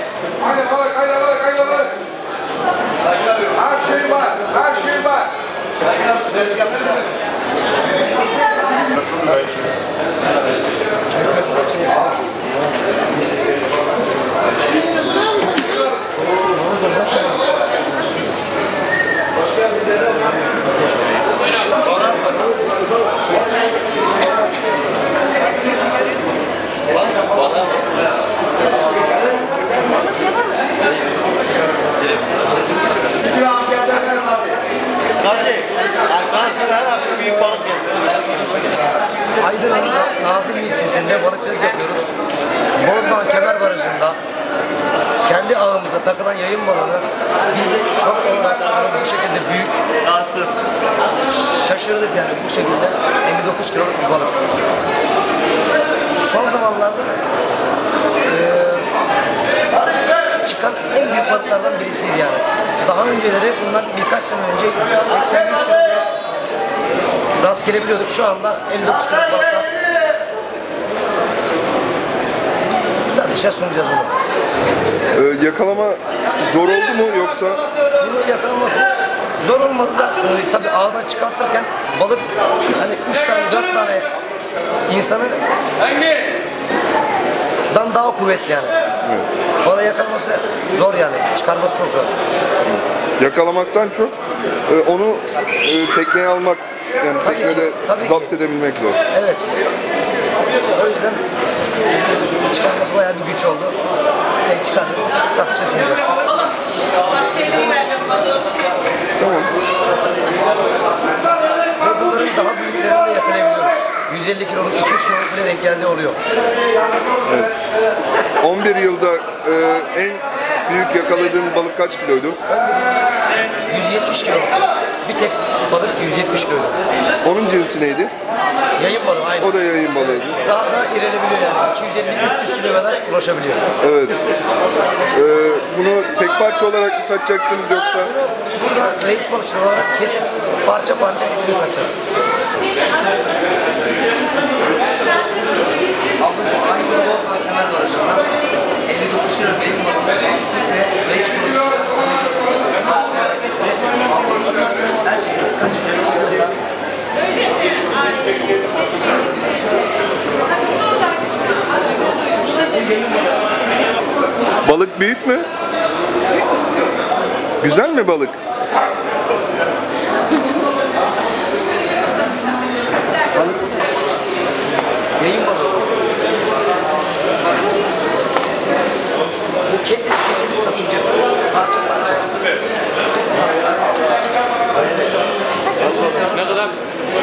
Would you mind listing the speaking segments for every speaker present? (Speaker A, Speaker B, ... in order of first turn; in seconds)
Speaker A: 4.2-4.7, 9.2-9.6, 11.6-11.8, 39.4-42.1, 42.8-44.2, 45.2-49.9, 51.3-54.5, 56.2-57.2, 58.2-58.9, 60.3-66.0, 67.4-69.7, 73.0-74.1, 78.0-84.1, 84.9-85.4, 87.7-88.8, 89.6-92.1, 97.2-98.3, 99.1-99.5, 100.5-101.2, 102.4-103.8, 104.5-106.2, 111.8-116.2, 122.5-126.8, 128.8-129.5, 130.4-133.6, 138.1-142.0, 146.2-156.6, 173.3-173.9, 175.2-175.9, 179.7-182.4, 186.4-186.7
Speaker B: 35.3-37.9
Speaker C: 75.2-77.6, 92.7-94.1, 94.7-99.0, 109.2-109.5, 117.3-117.5, 118.4-122.4, 127.2-128.1, 129.4-130.4, 133.8-134.2, 135.1-138.1, 164.6-165.5, 167.6-168.4